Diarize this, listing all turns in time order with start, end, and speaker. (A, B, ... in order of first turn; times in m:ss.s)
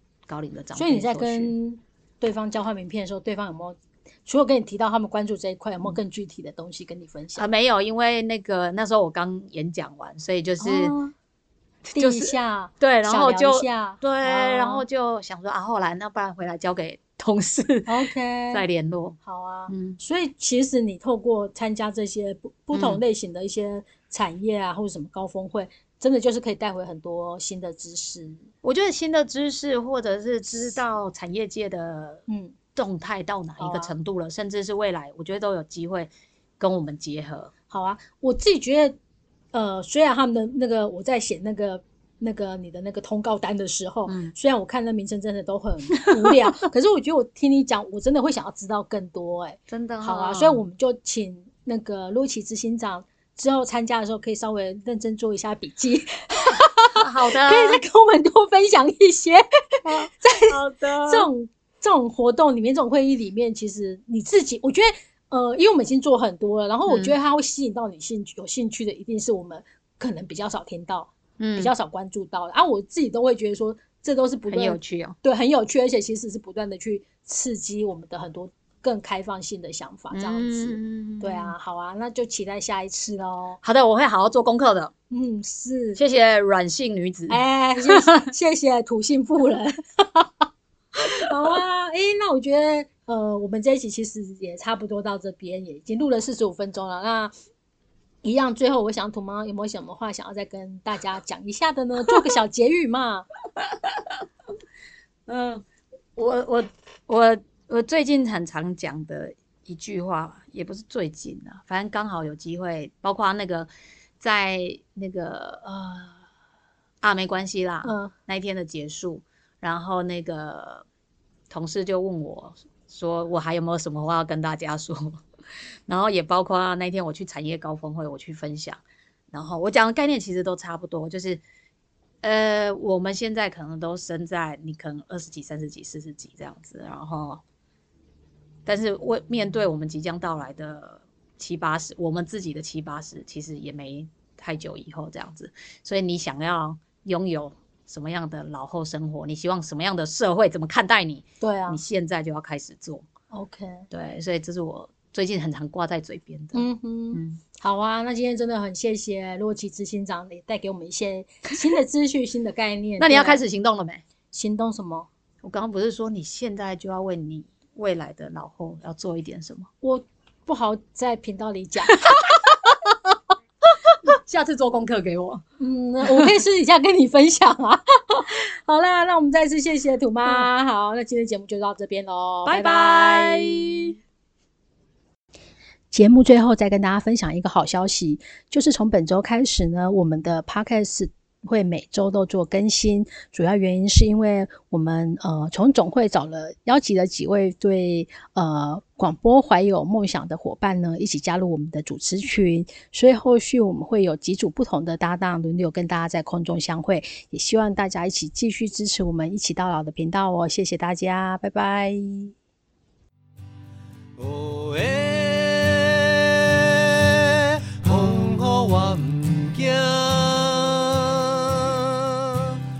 0:00.3-0:01.5 A
0:00.7-0:07.5 B
0:07.4-0:11.0 A
0:10.6-0:11.1 B
0:11.8-0:18.0 A
0:11.9-0:14.8 B
0:17.9-0:18.6 B
0:18.5-0:20.0 A
0:19.2-0:28.4 B
0:22.7-0:23.0 A
0:28.6-0:32.2 A
0:32.3-0:32.5 B
0:32.7-0:37.5 A
0:33.6-0:33.9 B
0:37.7-0:39.0 B
0:39.5-1:23.6 B
0:44.1-0:44.3 A
0:46.0-0:46.4 A
0:49.7-0:50.6 A
0:57.0-0:57.8 A
0:59.8-1:01.3 A
1:06.9-1:07.1 A
1:11.4-1:11.7 A
1:14.5-1:15.2 A
1:20.1-1:21.5 A
1:23.6-1:24.9 A
1:25.1-1:26.0 B
1:26.0-1:28.2 A
1:27.3-1:37.3 B
1:38.2-1:43.3 B
1:43.9-1:44.1 A
1:45.3-1:45.6 A
1:46.2-1:53.7 A
1:54.2-1:56.2 A
1:57.0-2:00.8 A
1:57.8-1:58.1 B
2:01.5-2:05.2 A
2:05.9-2:11.4 A
2:12.2-2:17.4 A
2:18.6-2:33.1 A
2:31.4-2:31.8 B
2:33.3-2:33.9 B
2:33.9-2:37.4 A
2:36.5-2:43.4 B
2:43.0-2:44.0 A
2:44.3-2:45.1 B
2:45.4-2:49.7 A
2:49.8-2:52.1 B
2:52.0-2:52.8 A
2:53.7-2:55.4 A
2:55.6-3:03.9 B
2:56.0-2:56.3 A
3:02.4-3:04.0 A
3:05.9-3:32.3 B
3:34.2-3:42.6 C